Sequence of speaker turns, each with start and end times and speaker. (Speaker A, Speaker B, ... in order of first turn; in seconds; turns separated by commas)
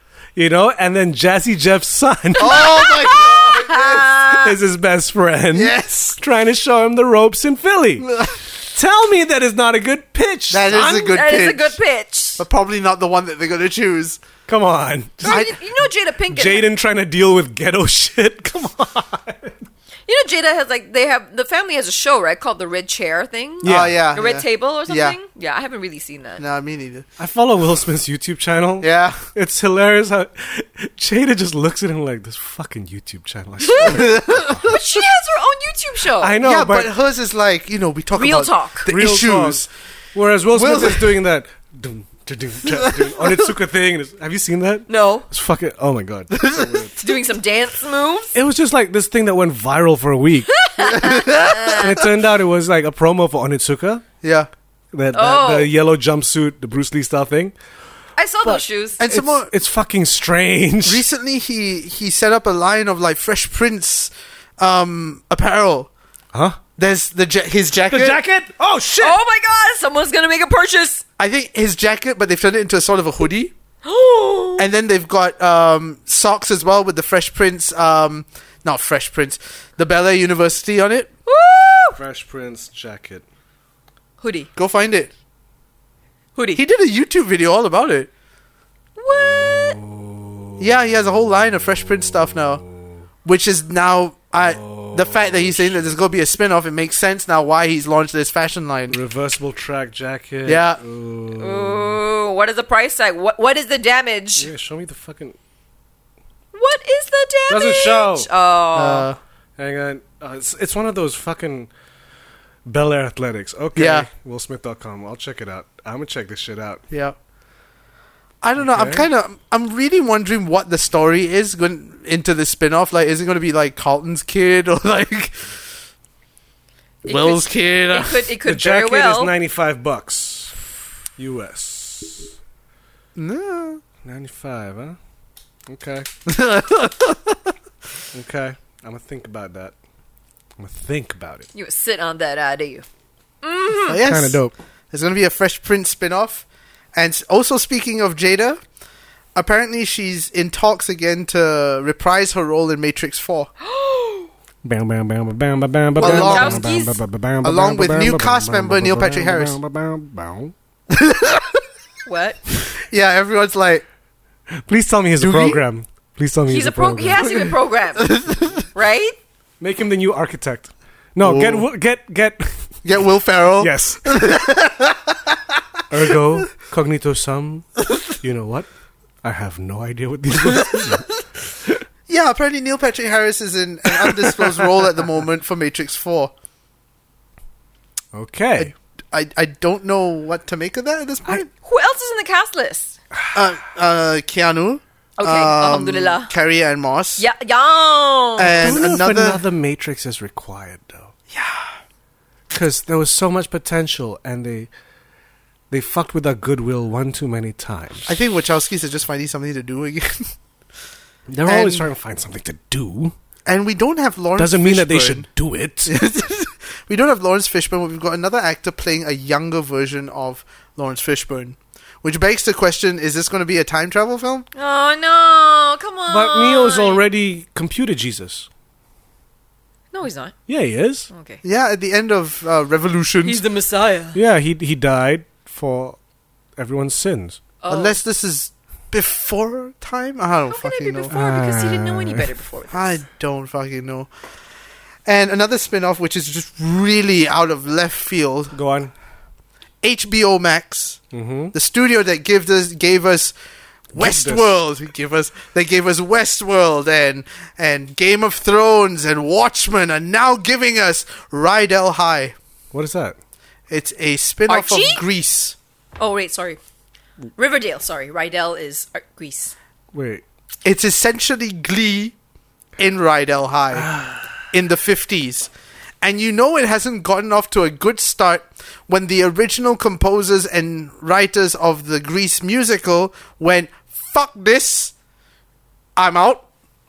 Speaker A: 0.3-2.7, Speaker B: 2.4-4.3, Speaker C: 2.4-4.5, Speaker A: 4.3-8.1, Speaker B: 5.5-6.2, Speaker B: 8.0-8.4, Speaker A: 8.7-11.1, Speaker B: 10.5-11.8, Speaker C: 10.7-12.4, Speaker B: 12.4-14.2, Speaker A: 14.5-15.5, Speaker C: 15.2-16.6, Speaker B: 15.3-15.5, Speaker A: 16.3-19.6, Speaker C: 20.1-26.4, Speaker A: 23.6-24.1, Speaker B: 23.6-25.1, Speaker B: 26.4-27.1, Speaker A: 27.2-34.8, Speaker B: 28.8-29.2, Speaker C: 33.7-34.1, Speaker B: 33.8-34.8, Speaker C: 34.6-36.4, Speaker A: 36.2-36.9, Speaker B: 36.4-39.7, Speaker C: 38.1-38.9, Speaker A: 38.9-46.9, Speaker B: 40.5-41.1, Speaker B: 42.7-43.4, Speaker C: 44.9-45.3, Speaker B: 46.3-46.9, Speaker C: 47.0-48.3, Speaker A: 48.3-50.5, Speaker C: 50.5-52.0, Speaker B: 50.8-52.0, Speaker A: 51.8-54.0, Speaker B: 54.2-54.5, Speaker A: 54.9-57.5, Speaker C: 55.1-55.7, Speaker C: 58.2-59.0, Speaker A: 58.4-61.0, Speaker B: 59.0-59.5, Speaker B: 60.8-65.9, Speaker A: 66.3-66.6, Speaker B: 66.8-68.2, Speaker A: 67.9-69.2, Speaker C: 69.0-71.0, Speaker B: 71.2-73.5, Speaker C: 73.8-74.7, Speaker B: 74.6-81.1, Speaker C: 81.3-82.0, Speaker A: 82.0-83.2, Speaker C: 84.2-84.5, Speaker B: 84.5-85.1, Speaker C: 86.3-86.6, Speaker B: 86.5-88.1, Speaker C: 89.0-89.8, Speaker A: 89.1-90.6, Speaker B: 90.6-92.6, Speaker A: 92.1-92.4, Speaker B: 93.2-99.0, Speaker A: 94.4-96.0, Speaker A: 98.9-102.0, Speaker B: 100.5-100.8, Speaker C: 101.4-104.5, Speaker A: 104.4-105.4, Speaker C: 106.5-109.1, Speaker A: 107.5-108.3, Speaker B: 108.7-109.2, Speaker A: 109.6-111.7, Speaker A: 112.7-116.8, Speaker B: 113.8-114.1, Speaker B: 118.4-125.6, Speaker A: 118.6-119.1, Speaker C: 127.0-129.3, Speaker B: 127.0-128.3, Speaker A: 128.4-130.6, Speaker A: 131.2-132.3, Speaker B: 133.2-133.8, Speaker A: 134.0-135.0, Speaker A: 135.7-136.1, Speaker B: 136.2-137.4, Speaker A: 138.1-139.7, Speaker A: 140.6-141.5, Speaker C: 141.5-142.8, Speaker C: 143.4-144.0, Speaker B: 143.9-144.4, Speaker A: 144.0-144.5, Speaker B: 144.9-148.6, Speaker B: 149.3-153.5, Speaker C: 153.6-154.3, Speaker A: 154.6-160.5, Speaker B: 156.0-156.7, Speaker C: 156.0-157.0, Speaker B: 157.4-159.6, Speaker B: 160.9-161.6, Speaker C: 162.1-162.4, Speaker B: 162.8-163.8, Speaker A: 164.5-167.4, Speaker B: 165.2-165.6, Speaker C: 166.5-168.2, Speaker B: 168.0-168.6, Speaker C: 168.7-169.2, Speaker A: 169.6-172.6, Speaker B: 171.2-171.7, Speaker B: 172.8-175.4, Speaker A: 173.6-174.1, Speaker A: 175.9-178.7, Speaker A: 179.2-181.1, Speaker B: 180.7-181.0, Speaker B: 182.1-186.3, Speaker A: 184.0-184.7, Speaker A: 188.1-188.7, Speaker B: 188.6-191.5, Speaker C: 191.5-192.9, Speaker B: 193.3-197.2, Speaker C: 195.2-196.3, Speaker C: 197.2-198.8, Speaker B: 198.4-199.4, Speaker A: 198.6-201.1, Speaker B: 201.3-201.6, Speaker A: 202.5-204.7, Speaker A: 205.7-208.1, Speaker B: 208.1-210.3, Speaker A: 211.3-213.1, Speaker B: 211.4-211.9, Speaker B: 213.4-215.3, Speaker A: 214.4-215.9, Speaker B: 215.8-224.5, Speaker C: 224.5-227.0, Speaker A: 226.1-228.5, Speaker C: 229.9-230.3, Speaker A: 230.5-231.1, Speaker C: 231.1-231.4, Speaker B: 231.4-233.4, Speaker C: 233.2-234.2, Speaker A: 234.1-236.0, Speaker A: 236.6-237.4, Speaker C: 237.6-237.9, Speaker B: 237.7-241.1, Speaker C: 240.5-243.0, Speaker A: 241.1-242.3, Speaker B: 242.7-244.1, Speaker B: 245.1-248.5, Speaker A: 248.5-248.9, Speaker B: 249.8-251.0, Speaker A: 251.1-251.5, Speaker B: 251.5-253.3, Speaker B: 253.9-262.3, Speaker A: 253.9-254.5, Speaker A: 262.7-263.2, Speaker B: 263.7-265.6, Speaker C: 264.5-265.0, Speaker C: 266.0-266.6, Speaker C: 267.4-269.5, Speaker A: 269.9-270.2, Speaker B: 270.6-272.1, Speaker B: 272.8-273.9, Speaker A: 273.7-274.3, Speaker B: 274.5-275.5, Speaker B: 276.0-284.9, Speaker B: 285.9-286.4